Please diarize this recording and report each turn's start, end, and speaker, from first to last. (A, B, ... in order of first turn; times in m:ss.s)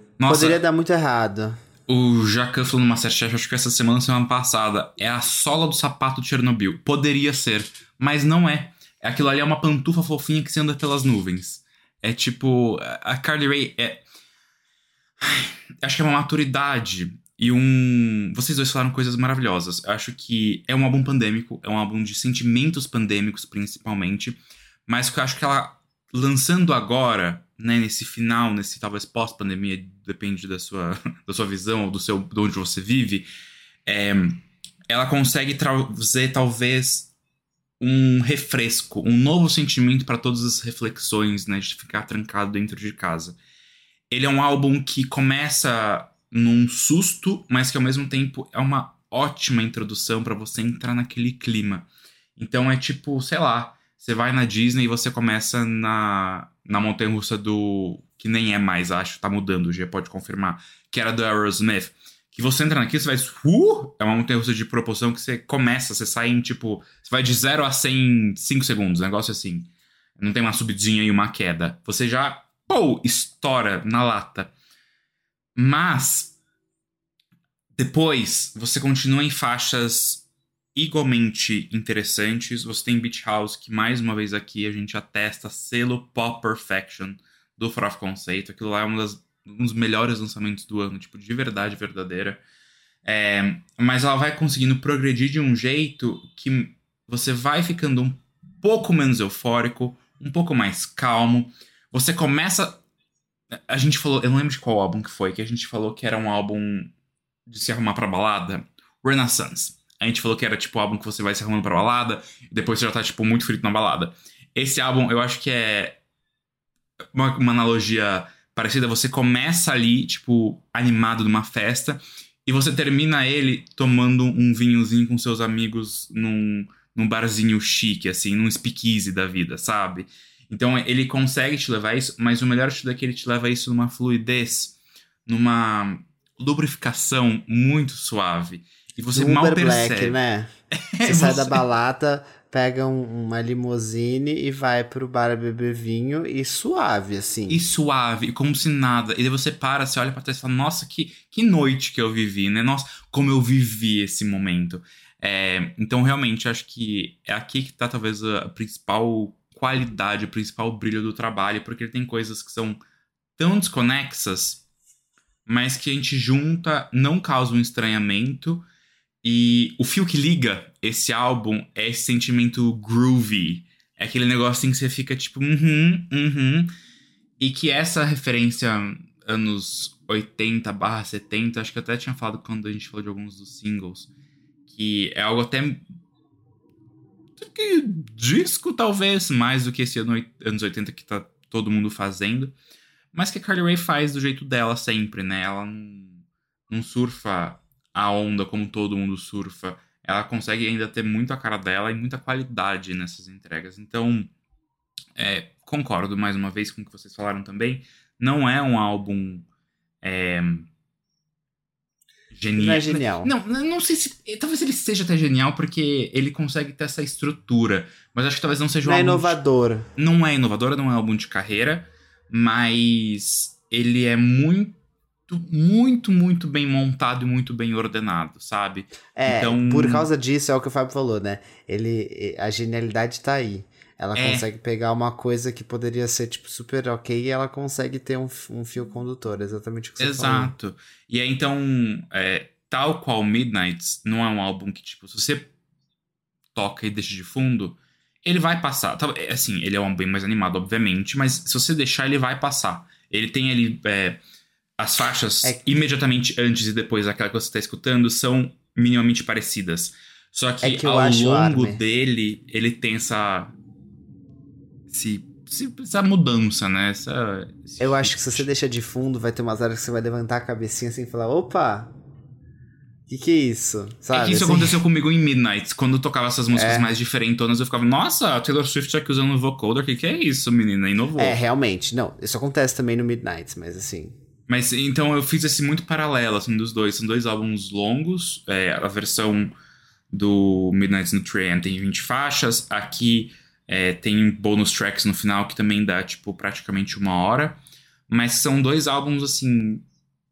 0:00.2-0:00.6 A
0:00.3-0:01.6 B
0:01.9-0:14.0 A
0:15.2-0:33.3 A
0:33.9-0:37.1 A
0:37.8-0:43.4 A
0:44.1-1:09.7 A
1:10.2-1:14.5 A
1:15.6-1:16.3 A
1:17.8-1:32.4 A
1:33.0-1:42.8 A
1:43.7-1:46.9 A
1:47.5-1:56.0 A
1:57.1-2:14.8 A
2:15.3-2:20.2 A
2:19.2-2:20.5 B
2:20.7-2:21.6 A
2:21.0-2:27.6 B
2:27.5-2:42.8 A
2:43.4-2:44.6 A
2:45.5-2:48.6 A
2:49.2-2:56.7 A
2:57.4-3:04.1 A
3:04.7-3:05.8 A
3:07.4-3:12.5 A
3:13.1-3:24.3 A
3:25.2-3:29.5 A
3:30.0-3:30.7 A
3:32.3-3:39.4 A
3:32.6-3:33.3 B
3:38.8-3:39.9 B
3:40.0-3:44.8 A
3:45.3-3:50.1 A
3:49.2-4:00.5 B
3:54.2-3:54.4 A
4:00.0-4:05.5 A
4:06.6-4:14.2 A
4:14.8-4:23.6 A
4:20.6-4:21.8 B
4:24.9-4:28.5 A
4:27.8-4:31.9 B
4:33.1-4:34.8 B
4:34.1-4:41.4 A
4:36.5-4:36.9 B
4:41.2-4:44.2 B
4:44.5-4:49.5 A
4:50.1-4:59.8 A